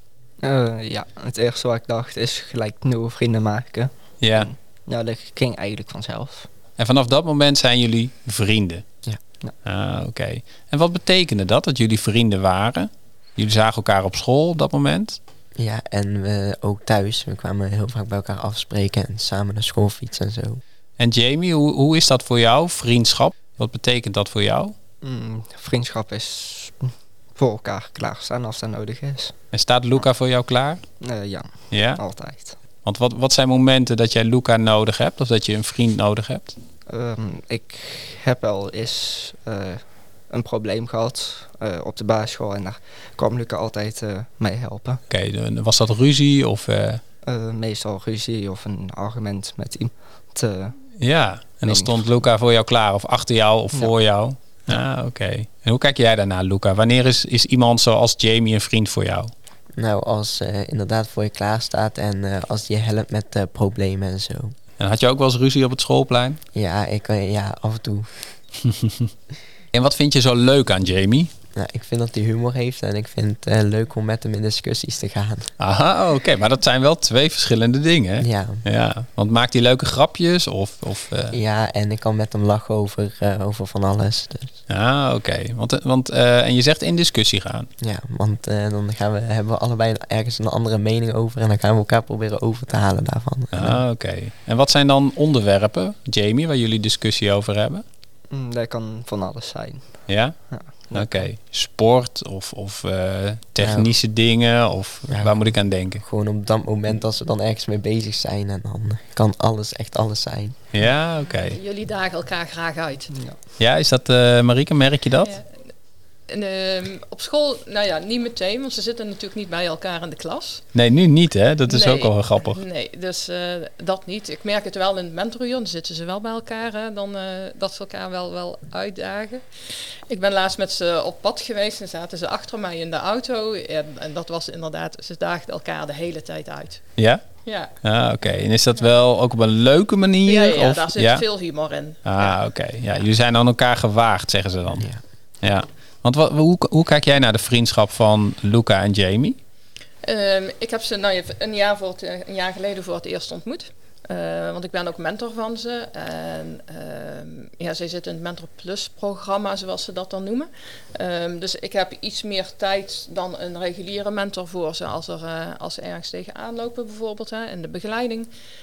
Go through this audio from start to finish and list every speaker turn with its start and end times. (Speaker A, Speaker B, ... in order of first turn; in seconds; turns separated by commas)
Speaker A: 0.4-6.5, Speaker B: 4.2-4.5, Speaker B: 6.8-8.8, Speaker B: 9.6-15.2, Speaker C: 15.6-20.6, Speaker B: 21.0-24.7, Speaker A: 25.0-29.3, Speaker B: 29.5-30.8, Speaker A: 31.0-32.5, Speaker B: 31.7-32.0, Speaker B: 32.8-36.5, Speaker A: 36.9-45.0, Speaker B: 45.1-47.0, Speaker A: 47.2-50.8, Speaker B: 51.0-59.3, Speaker A: 51.7-52.0, Speaker C: 59.8-64.5, Speaker B: 64.8-66.4, Speaker C: 66.5-68.2, Speaker B: 68.6-69.1, Speaker B: 69.7-71.3, Speaker C: 71.5-75.5, Speaker B: 75.6-81.4, Speaker C: 78.2-78.6, Speaker C: 81.3-84.5, Speaker B: 84.7-87.7, Speaker C: 87.8-93.8, Speaker B: 93.5-97.8, Speaker A: 98.3-99.8, Speaker B: 100.1-100.3, Speaker A: 100.5-101.2, Speaker B: 100.9-106.0, Speaker C: 103.6-103.9, Speaker C: 105.1-105.4, Speaker C: 106.0-110.6, Speaker B: 110.7-111.6, Speaker D: 111.5-113.1, Speaker B: 113.6-115.4, Speaker D: 116.3-120.6, Speaker B: 120.7-122.6, Speaker D: 121.7-136.8, Speaker B: 137.0-137.2, Speaker D: 137.4-137.7, Speaker B: 137.8-141.2, Speaker D: 140.2-142.4, Speaker B: 142.0-144.9, Speaker B: 145.4-149.4, Speaker D: 150.0-168.3